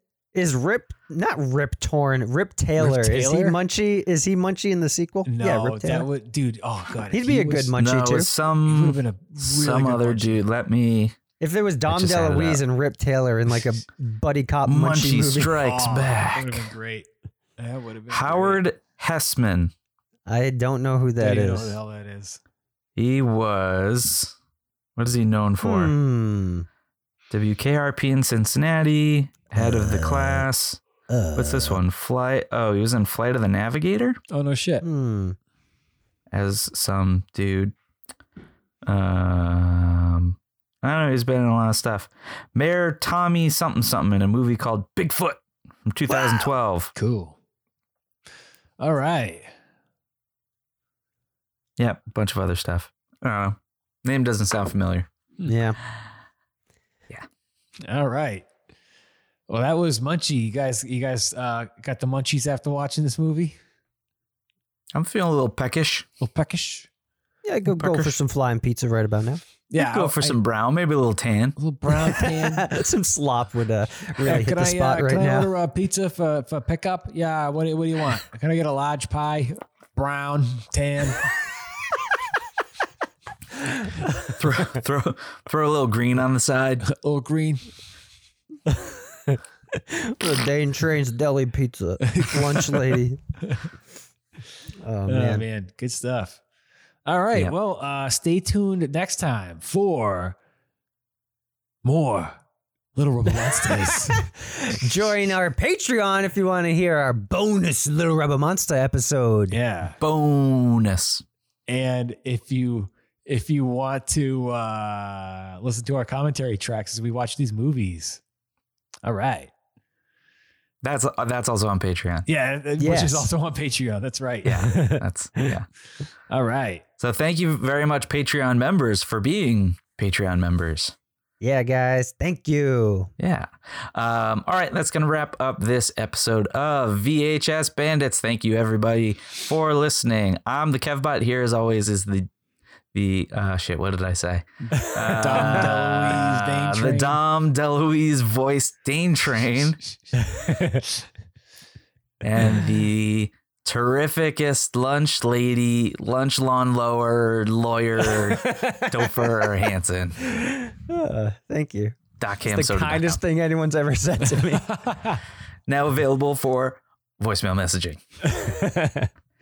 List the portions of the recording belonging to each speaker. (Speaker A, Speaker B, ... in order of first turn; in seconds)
Speaker A: 0.3-6.1, 7.1-8.3, 11.4-15.5, 20.3-21.8, 25.6-26.7, 29.6-30.4, 31.1-31.8, 34.8-35.4, 55.5-55.8, 67.5-69.4, 71.9-75.5, 89.9-93.2, 94.8-95.4, 104.5-109.6, 122.8-123.3, 124.7-125.0, 131.4-133.1, 150.4-150.8, 158.4-158.9, 160.4-164.8, 168.4-169.1
Speaker B: 2.8-3.6, 5.2-7.7, 8.7-10.4, 15.6-18.6, 21.2-22.4, 34.3-34.9, 46.1-47.4, 48.8-49.5, 57.8-58.5, 59.5-63.6, 66.2-66.9, 69.7-70.4, 71.6-72.7, 74.2-81.2, 86.8-87.7, 92.1-93.7, 95.1-96.4, 97.1-100.4, 101.8-102.4, 103.0-104.3, 109.5-110.0, 111.7-118.2, 119.0-119.5, 122.3-124.7, 126.3-126.8, 145.1-147.2
Speaker C: 7.8-11.2, 11.9-12.6, 14.7-16.7, 18.1-19.7, 23.0-24.3, 25.0-25.9, 27.3-30.8, 31.4-34.2, 36.3-37.7, 38.9-46.9, 51.8-55.1, 64.9-66.1, 67.8-68.2, 69.8-71.6, 84.3-86.9, 110.0-111.2, 120.8-122.3, 124.4-125.7, 127.0-130.9, 133.2-142.3, 142.9-149.8, 152.2-160.2, 162.2-163.2, 165.7-168.0